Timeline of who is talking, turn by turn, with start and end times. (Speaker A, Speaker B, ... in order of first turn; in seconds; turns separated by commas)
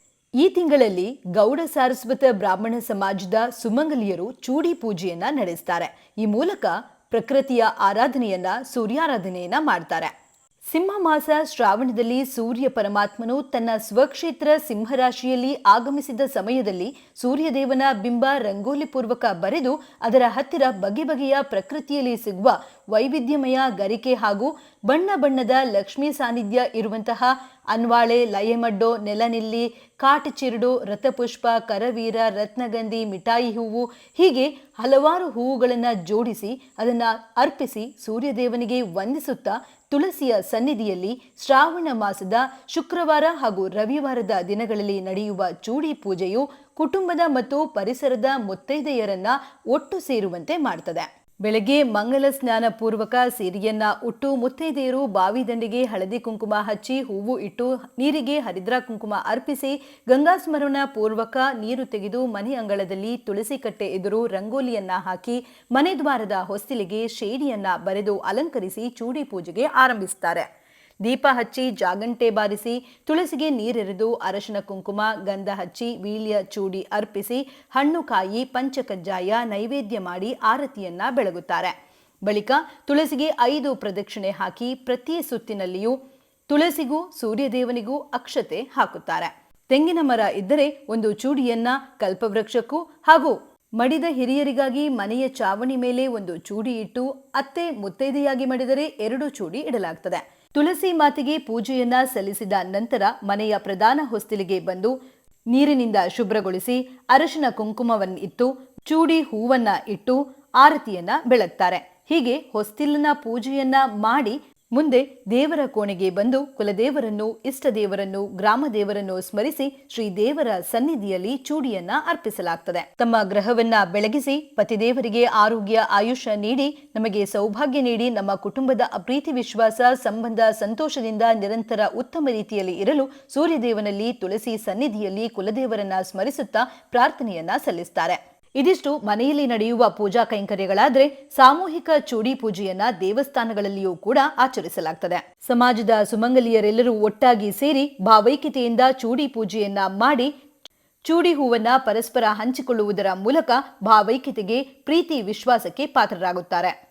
Speaker A: 0.4-10.1, Speaker A: 10.7-70.5, Speaker A: 71.0-81.7, Speaker A: 82.2-86.0, Speaker A: 86.5-105.0, Speaker A: 105.5-150.3, Speaker A: 151.1-156.8